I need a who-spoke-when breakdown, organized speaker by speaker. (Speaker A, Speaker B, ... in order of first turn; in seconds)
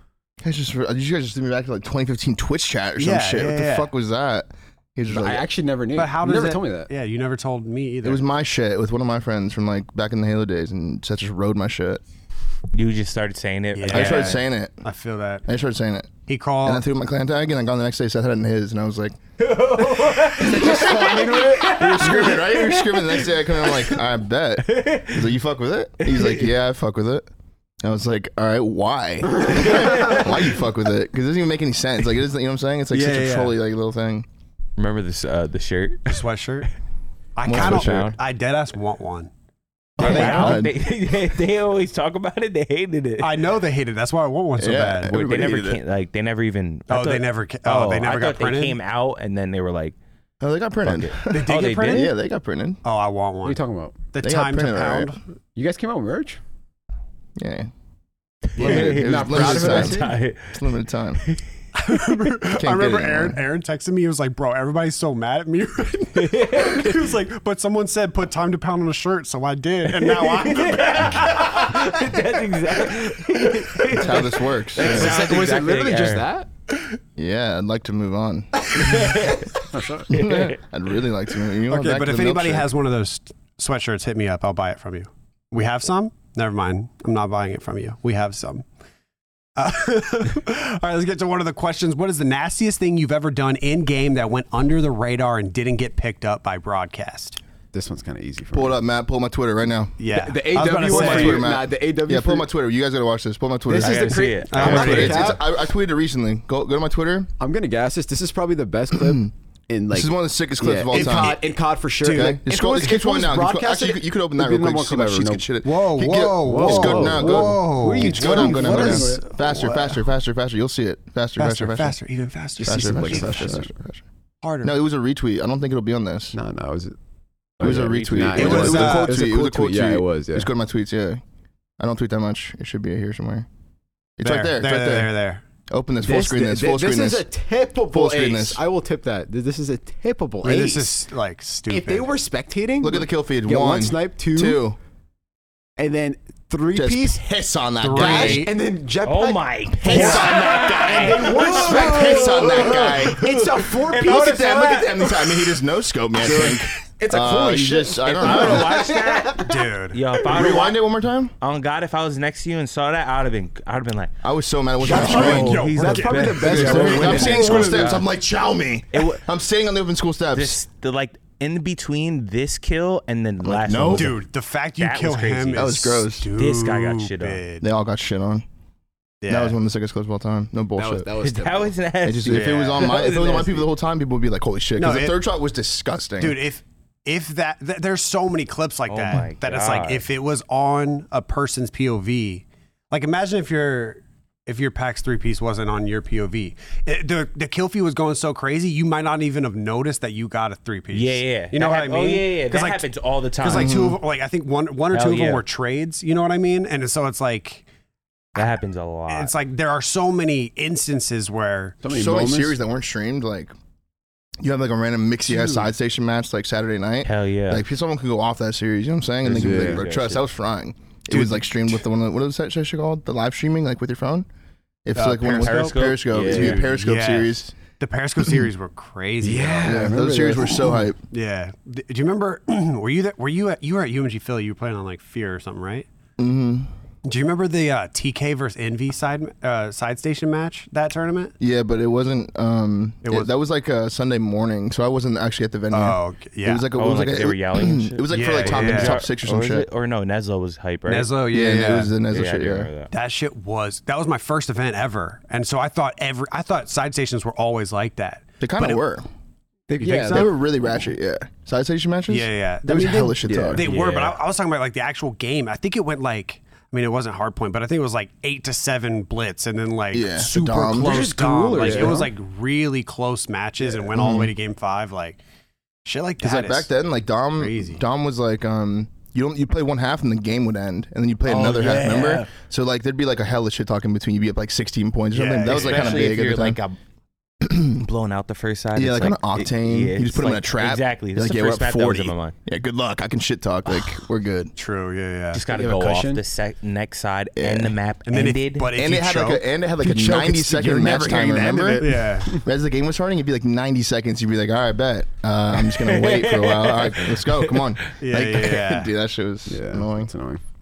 Speaker A: 0.4-5.4, 8.0-12.0, 13.9-14.8, 15.4-19.2, 20.6-27.2, 27.8-34.2, 37.4-38.1, 40.0-40.7, 44.6-45.8, 50.4-52.8, 54.2-55.2, 57.4-57.7, 58.6-61.2, 62.5-63.4, 73.8-75.2, 77.2-79.1, 80.1-82.7, 98.5-99.9, 100.9-107.3, 108.9-109.3, 109.9-111.4, 112.0-122.0, 122.6-124.0, 124.6-126.3, 127.6-131.2, 131.8-133.5, 134.2-135.1, 135.7-137.2, 137.9-138.6, 142.8-144.8, 146.7-148.5, 149.8-153.3, 154.0-158.8, 160.2-161.3, 164.2-165.7, 166.3-170.6, 173.4-174.2, 175.5-176.3, 177.6-178.4, 179.3-181.1, 182.0-186.4, 203.5-204.0, 211.9-213.5, 214.4-224.2, 224.8-227.5, 229.6-231.0, 236.2-236.7, 241.4-249.7, 251.3-252.7, 258.4-259.0, 259.8-263.6, 269.9-271.1, 271.6-271.9, 273.9-274.3, 276.2-286.6, 287.4-287.8, 288.7-294.5, 297.4-297.7, 298.7-310.1
Speaker B: 3.0-3.9, 5.9-8.2, 13.7-15.4, 16.3-16.8, 32.9-33.5, 36.1-36.7, 37.4-39.3, 40.0-40.6, 43.2-45.2, 46.9-48.8, 51.3-52.1, 52.8-53.6, 54.1-55.2, 61.8-72.0, 81.7-88.6, 89.5-97.4, 100.0-101.5, 104.5-105.3, 110.9-111.5, 112.0-112.4, 115.6-120.0, 121.4-123.6, 124.4-124.8, 128.3-129.2, 134.2-135.4, 140.4-142.1, 147.8-148.6, 149.9-150.2, 159.4-160.0, 164.8-167.9, 173.8-177.7, 179.2-179.6, 182.3-182.8, 184.8-185.2, 186.2-202.9, 203.4-207.7, 209.1-211.8, 221.1-221.7, 224.9-230.0, 231.1-235.8, 237.0-241.3, 243.0-243.3, 245.7-246.7, 248.1-249.0, 250.9-251.9, 252.9-258.8, 259.8-260.3, 262.1-275.2, 275.8-276.7, 277.4-277.8, 285.1-286.1, 294.5-295.4, 298.1-301.0, 301.8-302.4, 308.0-308.9
Speaker C: 5.1-6.9, 20.4-21.9, 53.4-54.1, 55.5-56.4, 58.6-60.1, 74.8-76.5, 79.7-80.1, 97.7-98.8, 100.1-102.5, 103.7-105.4, 107.4-115.5, 116.4-119.3, 122.6-123.7, 126.3-126.9, 127.6-130.5, 136.0-141.0, 141.7-144.6, 145.8-147.2, 147.9-155.0, 156.2-159.6, 164.8-167.9, 180.8-181.8, 182.8-183.7, 211.8-212.6, 219.2-219.8, 229.2-230.7, 259.7-260.3, 263.3-263.7, 270.7-272.1, 295.5-296.2, 300.4-302.4, 309.5-310.4
Speaker D: 12.7-14.4, 19.4-24.0, 24.6-25.3, 26.0-26.5, 29.5-30.5, 34.8-36.2, 37.5-38.2, 40.0-43.4, 45.1-50.0, 50.8-52.1, 58.5-60.6, 61.2-62.1, 66.1-67.1, 69.9-76.2, 78.8-80.6, 103.8-105.3, 127.9-128.6, 149.0-155.3, 158.1-160.8, 161.4-164.1, 164.8-168.1, 168.9-169.2, 170.3-174.2, 174.8-175.8, 176.3-177.4, 181.2-183.2, 188.9-190.1, 200.9-203.7, 204.9-205.4, 208.3-209.3, 217.0-217.6, 219.5-220.2, 225.3-226.7, 246.7-251.1, 252.1-252.9, 263.6-264.2, 281.2-282.3, 285.4-286.8, 287.8-292.3, 295.3-298.7, 305.6-307.7